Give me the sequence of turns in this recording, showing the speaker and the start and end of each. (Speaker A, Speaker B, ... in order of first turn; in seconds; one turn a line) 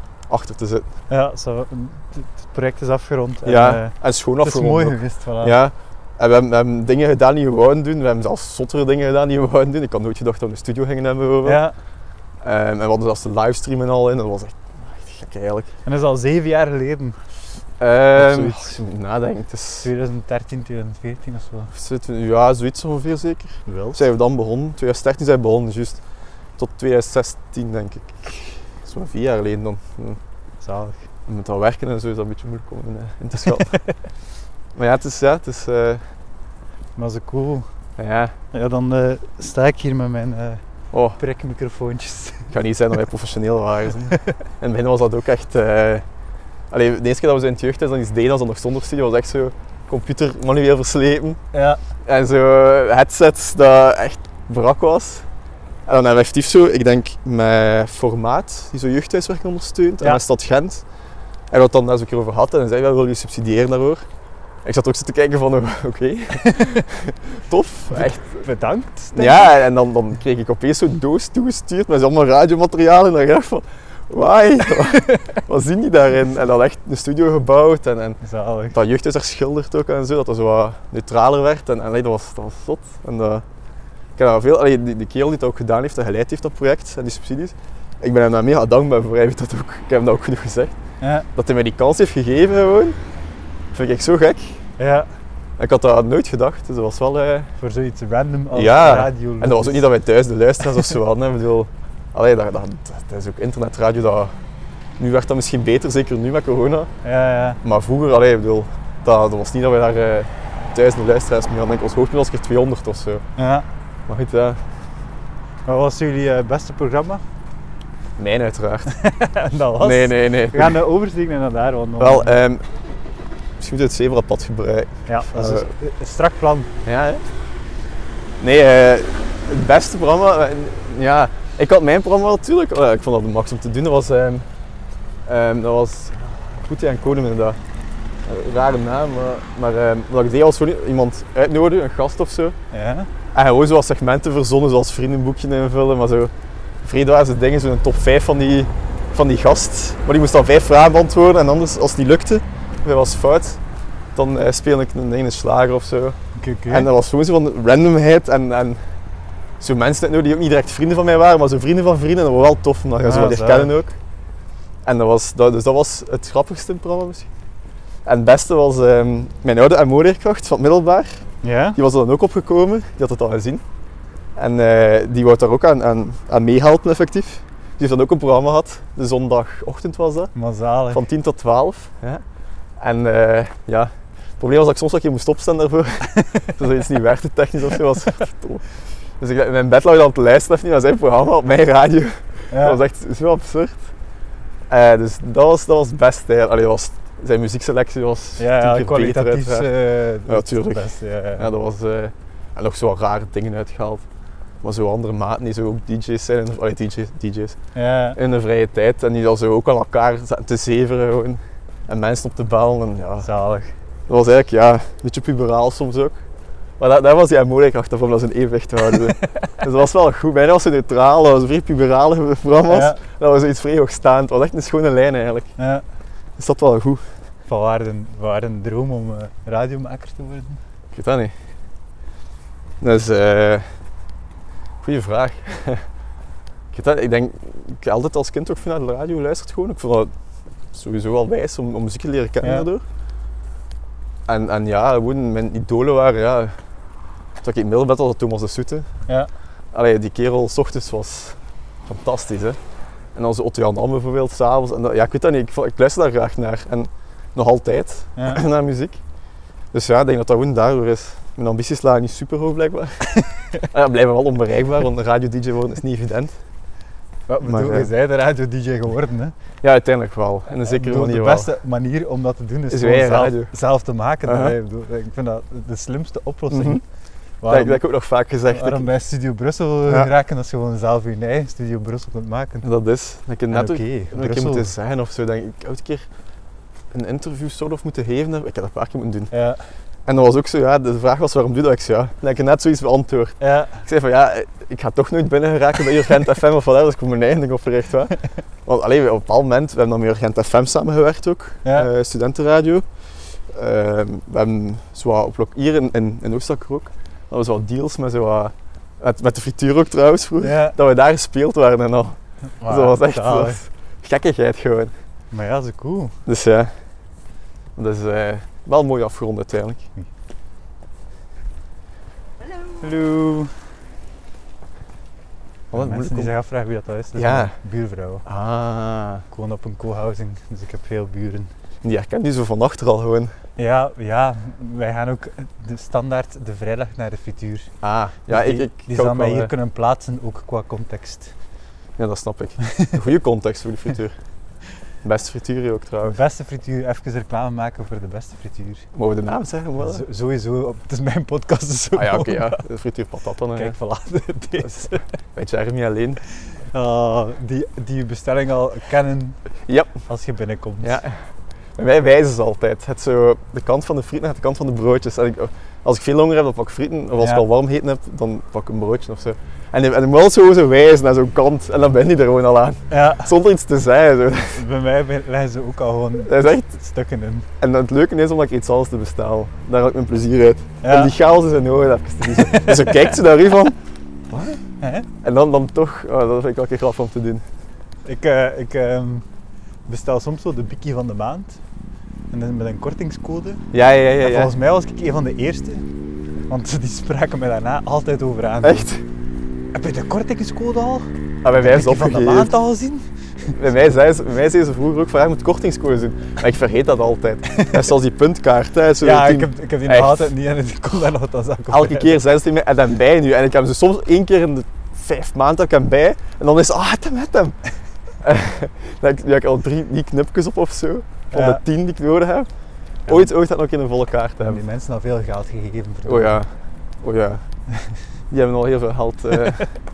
Speaker A: 0.3-0.9
Speaker B: 1.1-5.6
Speaker A: 3.5-11.6
Speaker B: 11.4-11.7
Speaker A: 12.4-15.7
Speaker B: 15.8-17.2
Speaker A: 17.8-19.9
Speaker B: 18.1-18.8
Speaker B: 19.8-21.7
Speaker A: 21.7-26.0
Speaker B: 23.7-24.0
Speaker A: 26.6-30.2
Speaker B: 30.6-31.0
Speaker A: 31.3-33.8
Speaker A: 34.8-36.0
Speaker B: 37.0-37.7
Speaker A: 38.0-38.4
Speaker B: 38.5-40.6
Speaker A: 40.9-41.2
Speaker B: 41.2-42.5
Speaker A: 42.5-46.0
Speaker A: 46.7-51.4
Speaker B: 51.5-51.8
Speaker A: 52.0-55.3
Speaker A: 55.9-60.8
Speaker A: 61.5-64.0
Speaker A: 64.6-68.5
Speaker B: 66.4-66.8
Speaker B: 67.9-69.5
Speaker A: 69.1-78.2
Speaker B: 74.9-75.2
Speaker B: 78.2-78.8
Speaker A: 78.7-83.5
Speaker A: 84.2-90.8
Speaker B: 91.0-91.3
Speaker A: 91.3-93.0
Speaker A: 93.7-94.6
Speaker B: 94.8-95.1
Speaker A: 95.6-97.5
Speaker B: 97.6-99.9
Speaker A: 98.5-104.3
Speaker A: 105.0-106.9
Speaker B: 107.0-107.6
Speaker A: 107.6-113.2
Speaker B: 113.4-113.7
Speaker A: 114.1-114.6
Speaker B: 115.7-117.2
Speaker A: 118.2-118.9
Speaker B: 118.9-122.4
Speaker A: 119.8-120.8
Speaker A: 122.0-122.6
Speaker A: 123.6-125.7
Speaker B: 125.1-126.7
Speaker A: 126.8-127.2
Speaker A: 128.4-134.4
Speaker A: 135.3-137.6
Speaker A: 138.2-142.6
Speaker B: 142.7-143.1
Speaker A: 143.3-146.3
Speaker A: 146.8-153.6
Speaker A: 154.1-156.2
Speaker B: 156.4-156.9
Speaker A: 156.7-158.8
Speaker A: 159.6-163.9
Speaker B: 163.0-163.7
Speaker A: 164.8-167.3
Speaker A: 168.1-171.1
Speaker B: 171.4-171.8
Speaker A: 171.8-173.6
Speaker A: 174.4-180.3
Speaker B: 180.3-181.0
Speaker A: 180.9-182.2
Speaker A: 182.8-188.6
Speaker B: 186.2-186.5
Speaker A: 189.2-193.8
Speaker B: 192.5-192.8
Speaker A: 194.7-199.7
Speaker B: 198.4-201.5
Speaker A: 200.3-204.1
Speaker A: 204.6-207.6
Speaker B: 207.8-208.2
Speaker A: 208.1-213.3
Speaker B: 213.2-213.7
Speaker A: 214.1-216.2
Speaker A: 216.8-225.5
Speaker B: 222.7-223.0
Speaker B: 225.6-225.8
Speaker A: 226.4-227.0
Speaker B: 227.5-230.6
Speaker A: 230.9-231.3
Speaker A: 232.8-233.6
Speaker A: 234.8-235.8
Speaker A: 236.7-240.1
Speaker A: 240.7-242.8
Speaker B: 242.4-242.7
Speaker A: 244.3-246.6
Speaker A: 247.4-248.9
Speaker A: 249.7-252.6
Speaker A: 253.1-259.0
Speaker B: 258.2-258.4
Speaker A: 259.7-266.3
Speaker B: 267.3-269.3
Speaker A: 267.4-267.9
Speaker A: 269.6-271.5
Speaker B: 270.6-276.8
Speaker A: 272.7-273.5
Speaker A: 274.2-274.6
Speaker A: 276.5-276.8
Speaker B: 277.4-277.8
Speaker A: 277.5-278.9
Speaker B: 278.5-282.7
Speaker A: 282.6-286.1
Speaker B: 283.5-284.7
Speaker A: 286.9-289.3
Speaker B: 289.3-289.6
Speaker A: 290.1-302.9
Speaker B: 293.4-293.8
Speaker A: 303.5-314.9
Speaker B: 310.4-310.8
Speaker B: 312.6-313.6
Speaker B: 315.3-316.2
Speaker A: 316.3-316.7
Speaker A: 317.8-319.9
Speaker B: 322.8-323.5
Speaker A: 325.7-326.3
Speaker B: 325.7-328.3
Speaker A: 327.1-327.6
Speaker A: 328.3-329.2
Speaker B: 329.3-331.5
Speaker A: 331.8-333.3
Speaker B: 333.6-337.7
Speaker A: 337.8-339.5
Speaker B: 338.3-341.3
Speaker A: 342.0-344.2
Speaker B: 342.6-342.9
Speaker A: 345.0-346.2
Speaker B: 346.1-348.9
Speaker A: 348.9-350.0
Speaker B: 349.8-352.6
Speaker A: 351.9-353.8
Speaker B: 353.6-355.1
Speaker A: 354.6-356.2
Speaker B: 356.7-359.4
Speaker A: 359.7-360.0
Speaker B: 360.1-361.0
Speaker A: 360.8-361.2
Speaker A: 361.8-374.6
Speaker B: 372.9-373.3
Speaker B: 374.5-377.5
Speaker A: 376.2-376.7
Speaker A: 377.6-383.8
Speaker B: 380.8-381.1
Speaker B: 382.4-383.1
Speaker B: 384.3-385.1
Speaker A: 385.2-387.4
Speaker B: 388.1-389.2
Speaker B: 389.9-391.6
Speaker B: 392.3-393.6
Speaker A: 393.7-394.5
Speaker B: 394.2-395.9
Speaker B: 396.5-398.9
Speaker A: 398.6-399.0
Speaker B: 399.7-403.6
Speaker A: 401.4-402.5
Speaker A: 403.6-410.3
Speaker B: 407.5-407.8
Speaker B: 409.0-412.2
Speaker A: 411.7-417.6
Speaker A: 418.2-422.5
Speaker B: 421.3-421.6
Speaker A: 423.1-424.6
Speaker B: 424.4-426.4
Speaker A: 426.1-426.5
Speaker A: 427.0-427.4
Speaker A: 428.3-429.7